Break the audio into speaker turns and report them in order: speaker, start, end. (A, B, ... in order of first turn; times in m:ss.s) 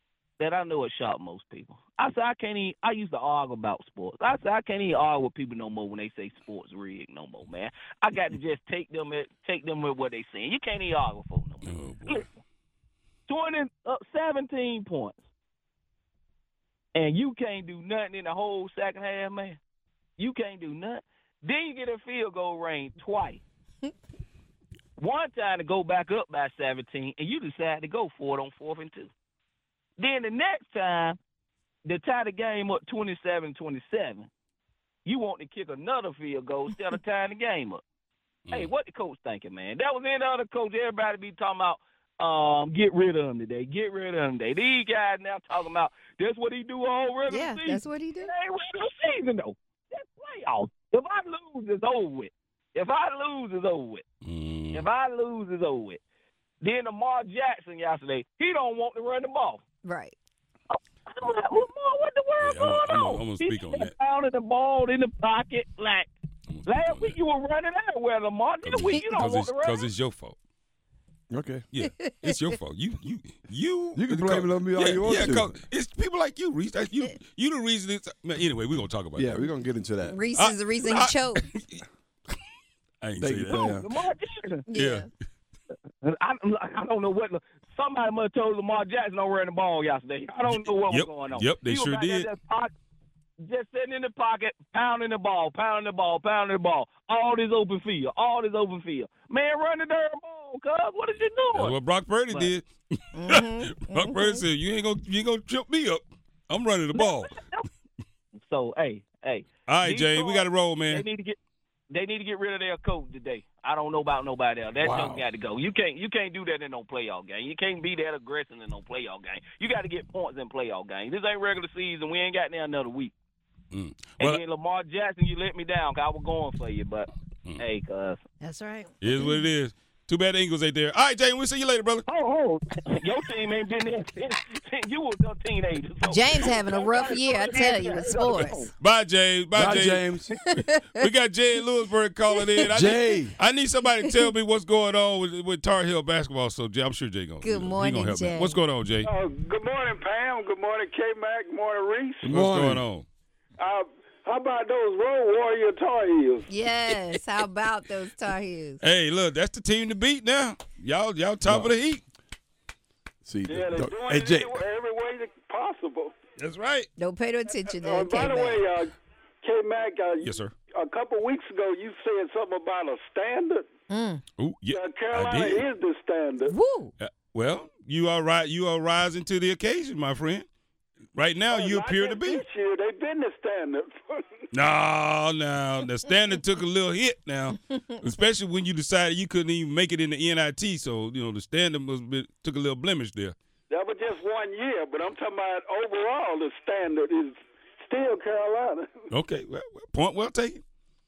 0:00.4-0:12.3 A
0:11.6-0:12.2 B
0:13.3-0:15.2 A
0:16.9-0:19.6 A
0:20.2-0:23.4 A
0:25.0-0:29.1 A
0:30.0-0:31.2 A
0:31.8-0:34.3 A
0:35.0-0:37.8 A
0:38.5-0:54.0 A
0:47.3-0:48.3 C
0:54.2-0:54.9 B
0:54.7-0:56.0 A
0:56.6-0:59.6 A
0:59.8-1:00.2 C
1:00.7-1:06.1 A
1:02.4-1:03.9 B
1:06.5-1:07.2 B
1:06.6-1:09.9 A
1:08.6-1:10.4 B
1:08.8-1:09.2 C
1:11.3-1:11.6 D
1:11.7-1:19.5 B
1:11.8-1:12.3 C
1:14.0-1:15.6 D
1:19.2-1:20.2 D
1:20.0-1:21.4 C
1:20.3-1:21.8 B
1:23.0-1:23.7 B
1:23.2-1:23.9 D
1:23.5-1:24.7 A
1:24.7-1:25.1 C
1:24.7-1:25.1 B
1:26.0-1:32.7 A
1:30.4-1:32.3 B
1:33.4-1:41.8 A
1:41.5-1:47.4 B
1:43.2-1:44.4 C
1:46.9-1:47.7 A
1:48.4-1:51.4 A
1:49.7-1:51.0 B
1:51.9-2:03.1 A
1:54.8-1:55.2 D
2:03.7-2:04.4 B
2:04.2-2:08.2 A
2:08.4-2:09.4 C
2:09.0-2:12.0 B
2:12.0-2:18.7 A
2:16.0-2:18.7 C
2:18.8-2:29.1 B
2:19.5-2:20.4 D
2:20.4-2:21.0 C
2:22.7-2:23.3 D
2:27.4-2:28.6 C
2:29.0-2:32.4 E
2:32.2-2:32.8 D
2:32.3-2:33.0 B
2:33.6-2:36.5 E
2:36.5-2:38.8 C
2:38.8-2:42.0 B
2:41.4-2:41.7 D
2:43.2-2:44.6 D
2:43.5-2:46.1 E
2:46.4-2:46.9 B
2:47.0-2:48.6 C
2:47.6-2:53.7 E
2:50.2-2:50.5 B
2:53.9-2:54.2 C
2:54.4-2:55.6 B
2:54.7-2:56.6 E
2:56.5-2:56.9 C
2:57.0-3:00.4 B
3:01.1-3:02.4 B
3:01.5-3:04.2 E
3:04.5-3:13.3 B
3:13.7-3:18.9 E
3:19.1-3:20.6 B